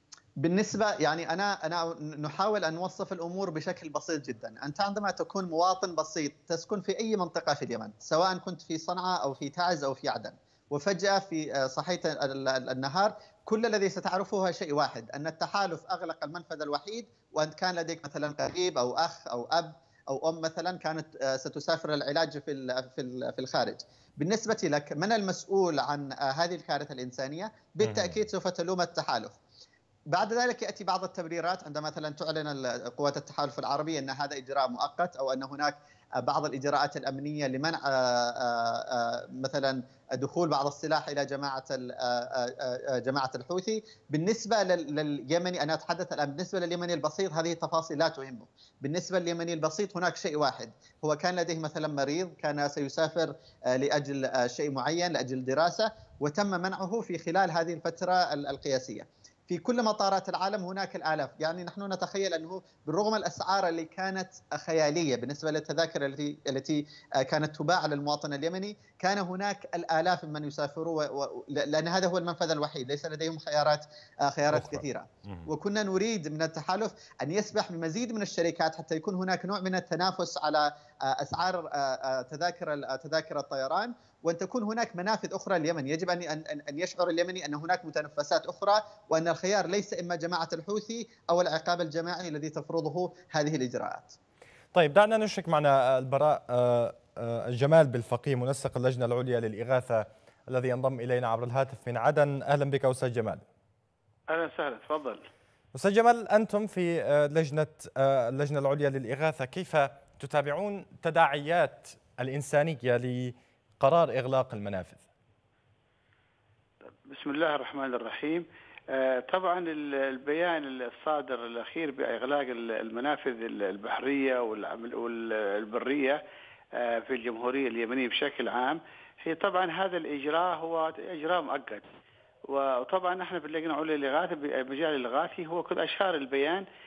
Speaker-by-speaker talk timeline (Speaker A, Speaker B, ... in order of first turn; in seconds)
Speaker A: 0.4-29.4, 30.1-94.2
Speaker B: 27.8-28.2, 74.5-75.5, 94.7-103.4, 105.7-115.0
Speaker C: 104.3-105.2, 117.1-126.2, 126.8-131.9, 132.5-136.6